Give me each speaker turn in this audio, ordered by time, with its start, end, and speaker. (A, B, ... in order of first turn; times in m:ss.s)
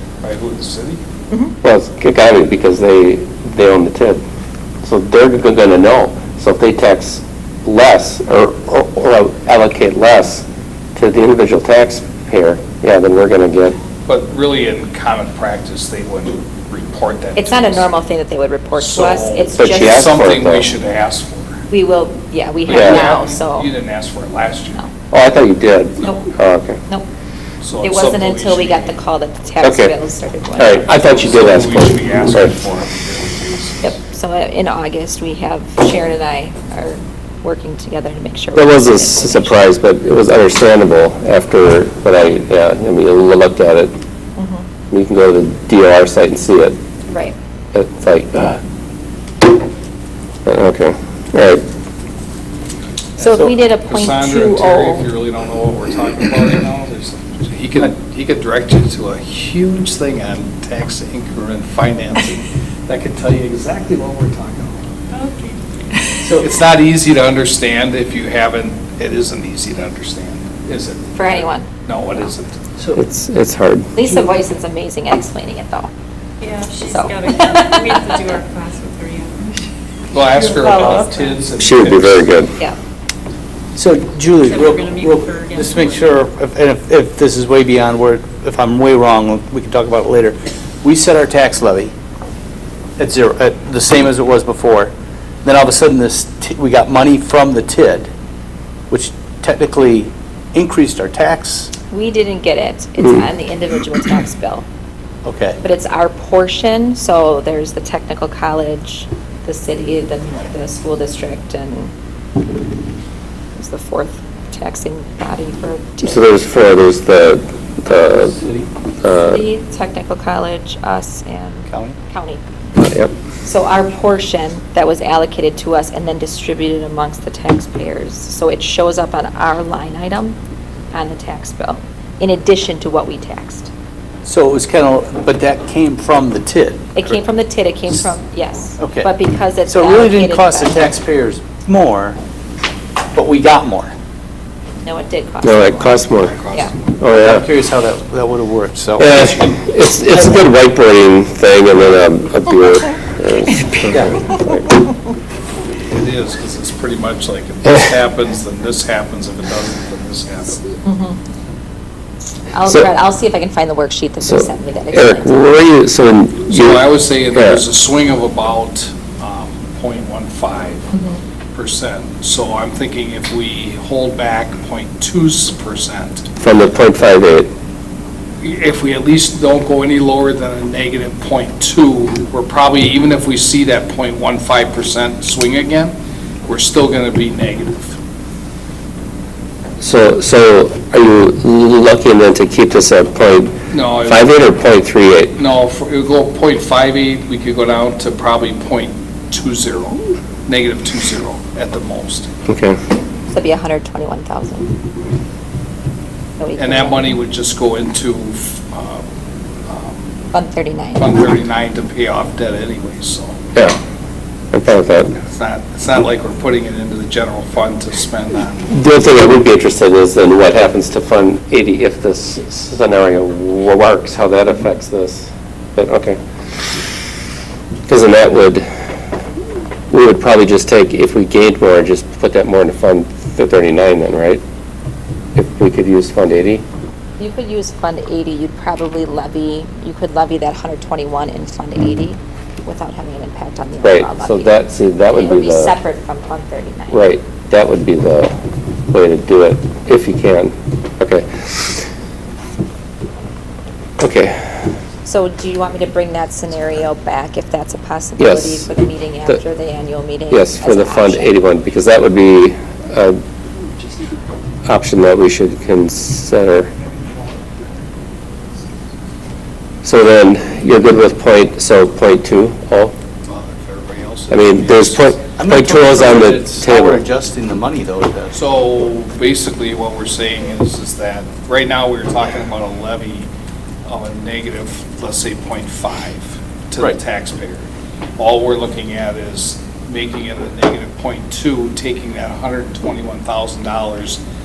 0:00.2-0:01.0 A
0:01.6-0:04.2 B
0:04.8-0:13.8 B
0:14.0-0:17.9 A
0:17.3-0:20.1 C
0:18.7-0:21.6 A
0:19.5-0:20.7 B
0:21.7-0:23.7 C
0:22.7-0:24.8 A
0:22.7-0:23.1 B
0:25.1-0:26.8 B
0:26.0-0:26.3 C
0:27.6-0:29.0 A
0:27.8-0:30.9 C
0:29.6-0:29.9 B
0:30.6-0:32.5 B
0:30.9-0:33.9 A
0:33.8-0:39.6 C
0:38.5-0:43.9 B
0:44.4-0:44.6 C
0:44.9-0:46.8 B
0:47.7-0:48.6 B
0:50.4-0:51.6 B
0:53.2-0:55.1 C
0:53.2-1:04.8 A
1:05.1-1:05.6 D
1:06.2-1:06.5 E
1:06.4-1:12.6 A
1:11.1-1:11.7 C
1:12.9-1:13.9 B
1:14.0-1:15.9 C
1:16.4-1:21.3 D
1:16.8-1:18.3 C
1:20.1-1:22.5 A
1:20.2-1:21.2 E
1:21.6-1:22.5 B
1:23.7-1:31.9 E
1:24.4-1:26.1 D
1:33.0-1:34.9 E
1:35.4-1:38.1 E
1:38.9-1:41.7 E
1:41.9-1:44.6 C
1:45.2-1:45.6 E
1:45.6-1:51.9 C
1:53.6-1:56.2 C
1:56.0-1:58.3 B
1:58.2-1:58.7 E
1:59.0-1:59.4 B
1:59.2-2:02.4 C
2:01.7-2:02.0 E
2:02.8-2:03.1 B
2:03.4-2:10.4 C
2:10.9-2:13.7 C
2:14.2-2:17.1 E
2:16.9-2:21.0 C
2:18.8-2:19.1 E
2:19.7-2:22.2 E
2:23.1-2:23.9 E
2:24.8-2:26.0 C
2:25.4-2:26.3 B
2:26.1-2:26.8 A
2:27.0-2:27.5 B
2:27.1-2:29.6 E
2:29.0-2:34.6 B
2:30.1-2:30.4 E
2:33.9-2:34.2 E
2:35.9-2:40.6 A
2:40.8-2:41.2 C
2:42.5-2:45.5 C
2:44.2-2:47.6 B
2:46.4-2:50.9 A
2:50.9-2:51.2 C
2:51.5-2:56.3 A
2:56.4-2:57.5 B
2:58.4-3:06.0 A
3:06.5-3:07.9 A
3:09.8-3:15.3 B
3:13.7-3:14.6 A
3:15.4-3:22.3 A
3:22.5-3:22.8 B
3:23.3-3:24.8 C
3:26.4-3:27.2 C
3:26.6-3:29.0 A
3:29.7-3:30.1 A
3:30.3-3:31.2 C
3:31.0-3:33.4 A
3:34.5-3:35.2 B
3:35.2-3:38.7 A
3:38.7-3:46.2 B
3:47.9-3:48.6 B
3:49.9-3:54.4 B
3:55.3-3:56.6 B
3:57.2-4:07.0 C
4:03.8-4:05.7 B
4:06.9-4:08.3 B
4:08.9-4:11.7 B
4:14.0-4:14.7 B
4:15.0-4:21.4 C
4:18.2-4:18.7 B
4:20.3-4:23.2 B
4:24.6-4:26.7 B
4:29.8-4:32.9 B
4:33.2-4:35.2 A
4:34.3-4:37.0 B
4:35.4-4:38.3 E
4:38.3-4:43.3 A
4:43.8-4:47.6 A
4:48.2-4:54.2 A